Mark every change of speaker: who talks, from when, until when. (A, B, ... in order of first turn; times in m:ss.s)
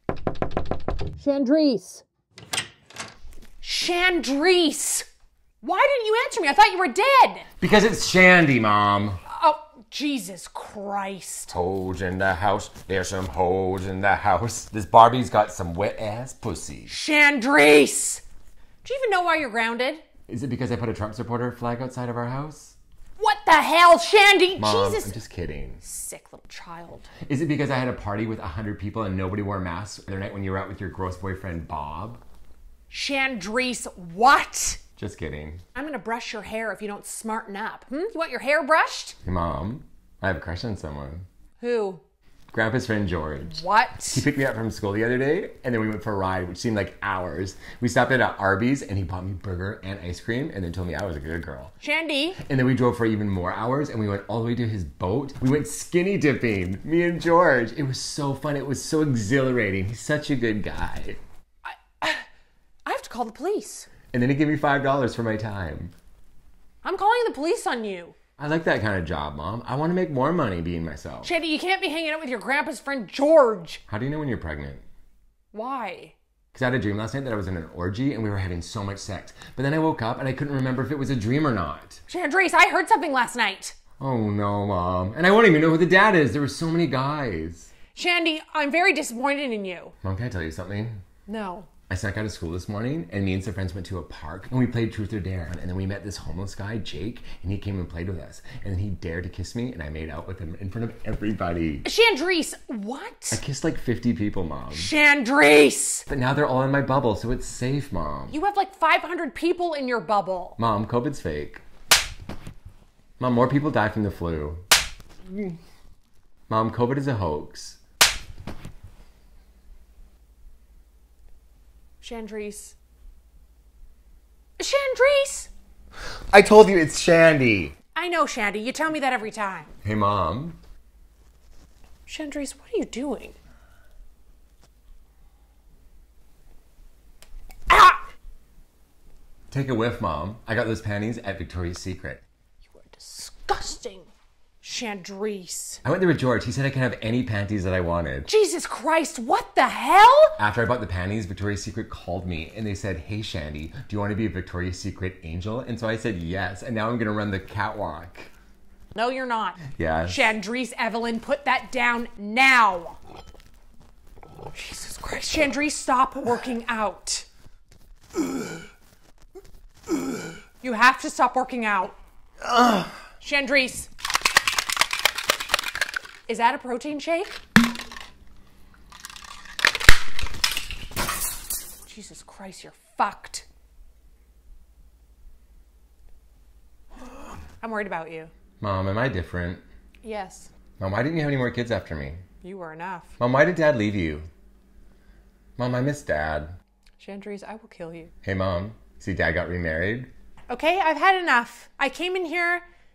0:01.2-0:02.0 A
0:03.6-0:05.1 A
0:05.6-0:07.5 A
0:07.6-0:09.2 B
0:09.3-0:11.5 A
0:11.5-0:16.9 B
0:16.9-0:18.2 A
0:18.8-0:20.0 A
0:20.3-0:22.8 B
0:23.2-0:25.2 A
0:24.6-0:25.8 B
0:25.8-0:27.1 A
0:27.2-0:32.2 B
0:32.9-0:34.8 A
0:35.0-0:35.6 B
0:35.7-0:39.2 A
0:39.2-0:41.2 B
0:41.6-0:42.0 A
0:42.5-0:51.7 B
0:43.4-0:44.2 A
0:51.8-0:52.4 A
0:52.4-1:01.2 B
1:01.6-1:02.2 A
1:02.8-1:03.9 A
1:04.1-1:05.9 B
1:06.8-1:08.1 A
1:08.4-1:11.3 B
1:11.2-1:13.8 A
1:13.9-1:14.8 B
1:15.5-1:16.2 A
1:16.5-1:22.0 B
1:22.1-1:23.8 A
1:24.0-1:27.7 B
1:27.9-1:29.9 A
1:30.0-1:31.0 B
1:31.3-1:31.7 A
1:31.9-1:41.8 B
1:41.8-1:43.4 A
1:43.3-1:44.9 B
1:44.7-1:46.0 A
1:46.1-1:48.4 B
1:48.3-1:50.6 A
1:50.6-1:51.6 B
1:53.2-1:54.6 B
1:56.5-1:57.8 B
2:02.0-2:02.8 A
2:04.6-2:05.5 A
2:06.3-2:07.7 B
2:07.9-2:09.7 A
2:09.8-2:10.6 B
2:12.0-2:13.4 A
2:17.7-2:18.0 A
2:19.5-2:22.2 B
2:22.6-2:24.1 A
2:24.6-2:25.8 A
2:25.8-2:28.3 B
2:28.2-2:30.4 A
2:30.4-2:38.3 B
2:38.9-2:43.0 A
2:39.7-2:40.3 B
2:44.5-2:47.2 A
2:50.6-2:52.0 A
2:53.2-2:53.9 A
2:56.3-2:57.4 A
3:01.8-3:03.4 A
3:07.6-3:08.3 A
3:08.6-3:09.6 B
3:10.0-3:10.5 A
3:10.8-3:12.2 B
3:12.4-3:13.1 A
3:13.2-3:14.3 B
3:15.6-3:16.5 B
3:17.0-3:18.1 A
3:18.2-3:20.1 B
3:20.5-3:22.6 A